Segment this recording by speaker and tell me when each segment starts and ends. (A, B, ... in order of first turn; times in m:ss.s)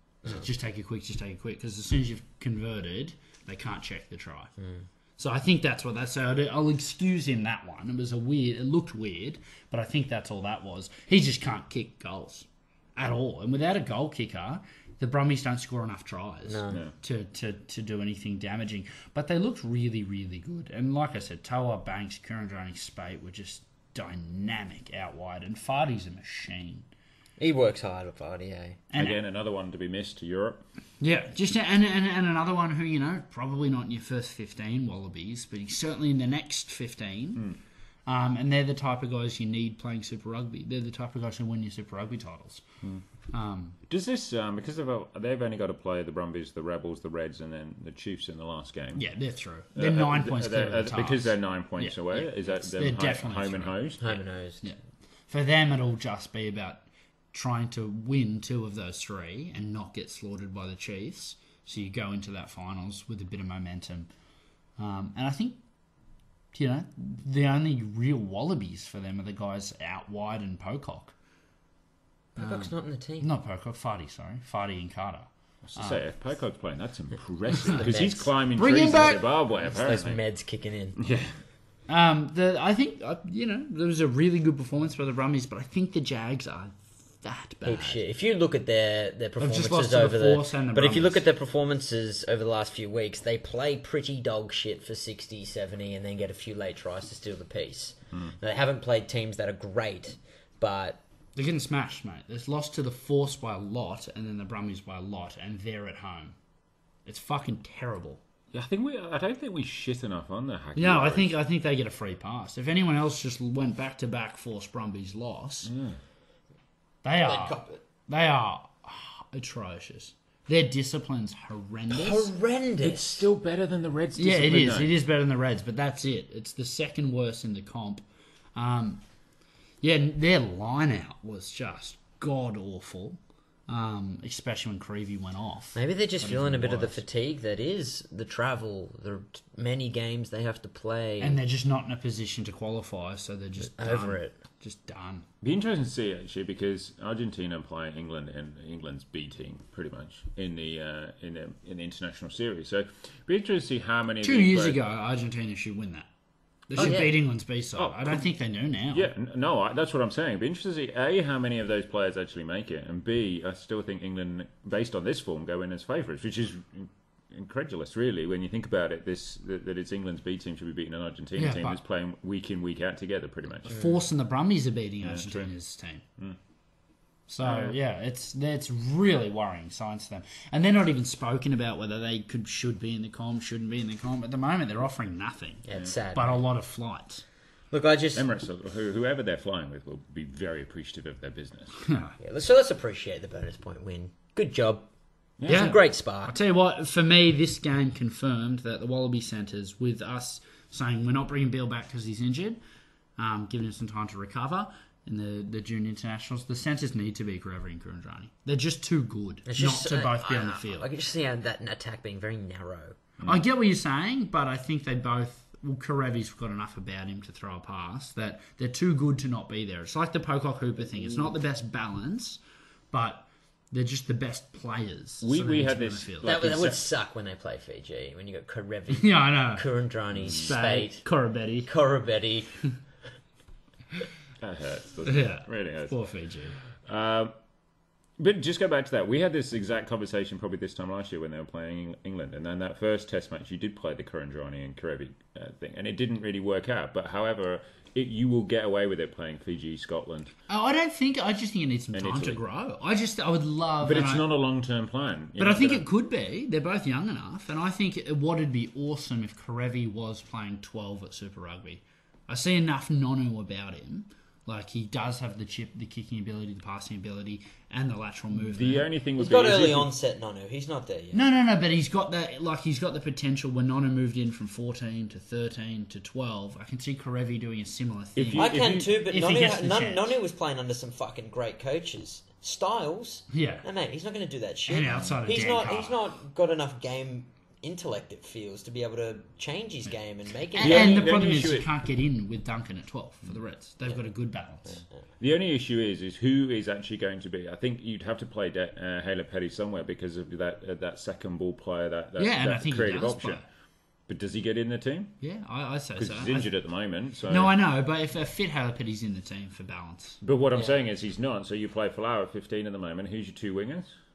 0:00.2-0:04.5 A
0:04.6-0:04.8 B
0:05.2-0:26.8 A
0:16.4-0:16.8 B
0:27.4-0:28.8 B
0:28.9-0:29.2 A
0:28.9-0:30.6 C
0:31.0-0:37.4 A
0:38.0-0:42.6 A
0:43.3-0:43.8 A
0:43.9-0:49.0 C
0:49.0-0:53.8 A
0:49.7-0:54.2 C
0:54.0-0:54.6 B
0:55.3-1:04.1 A
1:04.8-1:05.6 A
1:06.5-1:11.1 A
1:12.4-1:13.3 B
1:12.4-1:16.0 A
1:15.6-1:20.2 C
1:17.7-1:18.3 B
1:18.5-1:19.3 A
1:19.6-1:21.0 B
1:21.0-1:21.4 C
1:21.9-1:28.0 A
1:27.6-1:41.0 B
1:29.4-1:31.2 A
1:41.4-1:46.4 A
1:47.0-1:48.2 A
1:48.5-1:51.3 C
1:50.8-1:55.7 A
1:55.6-1:56.0 C
1:57.0-2:02.3 A
1:57.2-1:57.8 B
2:01.9-2:03.3 B
2:02.8-2:04.9 C
2:04.2-2:09.0 A
2:09.8-2:17.0 A
2:15.7-2:21.4 B
2:21.2-2:25.2 A
2:23.6-2:24.4 B
2:25.4-2:34.8 C
2:34.2-2:36.1 A
2:36.7-2:39.1 A
2:36.8-2:37.1 C
2:36.8-2:37.2 B
2:37.7-2:38.2 C
2:38.9-2:53.7 C
2:51.4-2:51.8 A
2:53.6-2:56.0 A
2:55.0-2:55.5 C
2:57.3-3:07.2 A
2:57.4-2:57.7 C
3:05.6-3:06.4 B
3:07.7-3:08.2 B
3:08.1-3:11.7 C
3:11.8-3:12.1 A
3:12.2-3:14.8 B
3:15.4-3:15.8 C
3:15.5-3:16.3 B
3:15.5-3:22.6 A
3:23.2-3:30.9 A
3:29.4-3:33.0 B
3:33.2-3:42.4 A
3:42.9-3:46.3 A
3:45.2-3:46.8 C
3:46.2-3:51.0 B
3:49.0-3:49.7 A
3:50.2-3:50.5 C
3:50.4-3:51.7 A
3:51.6-3:52.5 B
3:54.4-3:56.0 C
3:55.0-3:56.6 A
3:56.8-3:57.3 C
3:58.2-4:10.3 C
4:10.5-4:14.2 A
4:11.9-4:12.4 C
4:13.8-4:15.8 C
4:15.4-4:28.9 A
4:28.4-4:29.9 C
4:29.2-4:31.2 B
4:31.1-4:40.1 A
4:38.2-4:38.9 C
4:38.3-4:51.2 B
4:43.3-4:43.6 A
4:44.7-4:46.0 A
4:50.6-4:54.8 A
4:50.6-4:51.7 C
4:54.6-4:55.0 B
4:55.2-5:03.4 C
5:02.2-5:03.4 A
5:04.1-5:05.1 C
5:05.2-5:06.5 A
5:06.0-5:07.5 C
5:07.3-5:10.2 A
5:10.2-5:13.9 C
5:10.5-5:10.8 B